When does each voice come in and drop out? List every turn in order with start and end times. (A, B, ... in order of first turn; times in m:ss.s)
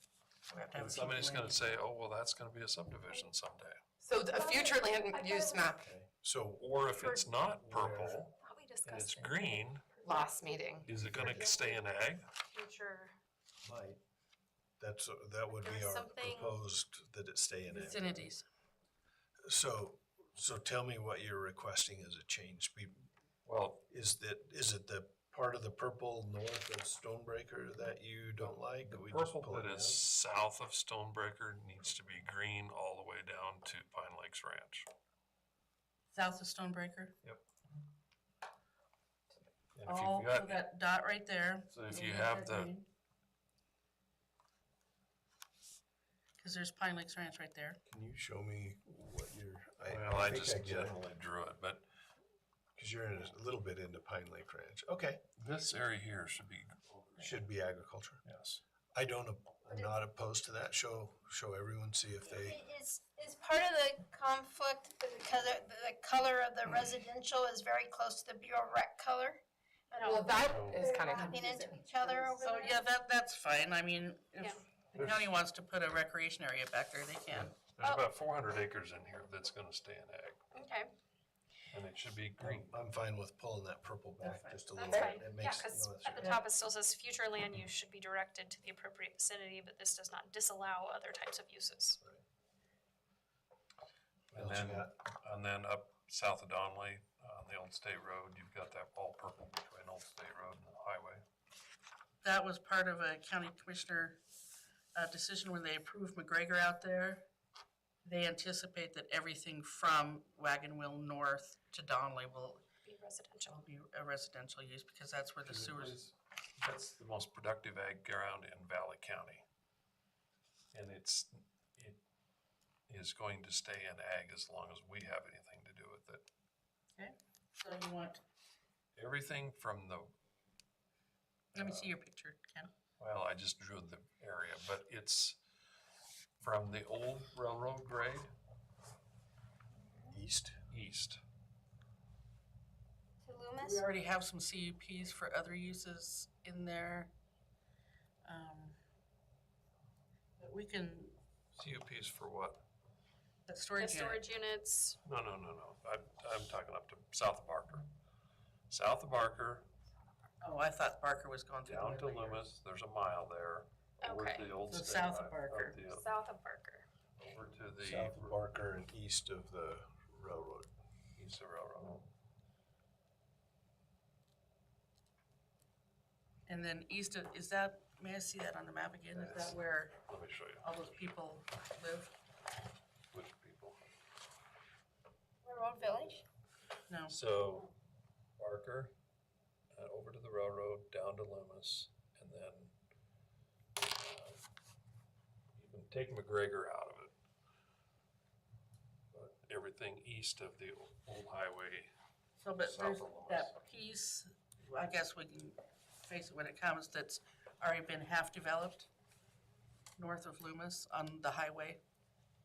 0:00.5-0:01.7 A
0:00.8-0:03.8 B
0:04.0-0:05.8 C
0:04.3-0:05.6 D
0:05.8-0:06.8 E
0:06.6-0:09.8 B
0:07.0-0:07.4 D
0:07.5-0:08.2 E
0:08.4-0:10.4 D
0:10.0-0:10.9 C
0:10.8-0:12.2 B
0:10.9-0:11.5 E
0:11.1-0:11.8 D
0:12.5-0:13.2 D
0:13.6-0:14.0 E
0:14.8-0:18.3 E
0:15.6-0:16.6 D
0:17.7-0:18.4 A
0:19.4-0:23.1 E
0:23.4-0:23.8 B
0:23.9-0:30.0 E
0:28.4-0:34.9 B
0:36.1-0:37.1 A
0:39.8-0:40.6 B
0:39.8-0:42.9 A
0:41.7-0:42.7 B
0:46.4-0:47.8 A
0:47.9-0:51.0 E
0:49.9-0:51.8 B
0:52.8-0:55.2 E
0:55.4-0:57.4 B
0:57.2-0:58.2 E
0:58.2-0:58.6 B
0:58.9-1:02.6 E
1:02.3-1:09.4 F
1:09.9-1:10.4 D
1:10.0-1:12.6 C
1:10.0-1:12.8 F
1:10.4-1:10.8 B
1:12.3-1:17.6 A
1:15.0-1:15.2 B
1:17.6-1:20.5 B
1:20.5-1:20.9 D
1:21.7-1:22.8 B
1:22.4-1:26.4 E
1:24.2-1:24.9 A
1:24.8-1:25.2 C
1:24.8-1:32.0 D
1:34.3-1:41.2 B
1:34.3-1:34.9 E
1:42.2-1:44.2 A
1:45.0-1:47.2 A
1:48.0-1:52.6 A
1:52.8-1:53.6 D
1:53.5-1:56.0 A
1:55.4-1:59.4 B
2:00.7-2:02.0 B
2:02.9-2:06.2 B
2:07.0-2:08.2 A
2:09.0-2:10.1 B
2:11.6-2:11.9 B
2:11.6-2:12.7 A
2:13.0-2:15.4 B
2:16.4-2:18.3 B
2:20.1-2:20.6 E
2:20.7-2:21.2 B
2:23.2-2:23.9 F
2:23.6-2:27.1 A
2:28.2-2:28.8 A
2:30.4-2:31.2 A
2:31.5-2:32.6 B
2:33.5-2:34.3 A
2:33.8-2:35.0 D
2:35.0-2:37.9 B
2:38.7-2:39.7 B
2:40.4-2:42.5 A
2:41.7-2:46.1 B
2:44.0-2:44.5 D
2:44.7-2:45.8 A
2:45.9-2:46.9 D
2:47.2-2:48.4 B
2:47.8-2:50.7 E
2:51.2-2:52.1 B
2:56.5-3:00.0 A
2:59.1-3:00.7 B
3:00.6-3:02.1 A
3:03.1-3:03.8 B
3:05.4-3:06.2 F
3:05.9-3:06.2 B
3:06.9-3:07.2 A
3:07.1-3:07.7 B
3:08.4-3:08.9 B
3:09.7-3:12.7 B
3:13.8-3:14.5 B
3:15.6-3:17.1 B
3:19.1-3:21.9 B
3:22.4-3:28.9 A
3:22.6-3:23.6 B
3:30.0-3:31.8 A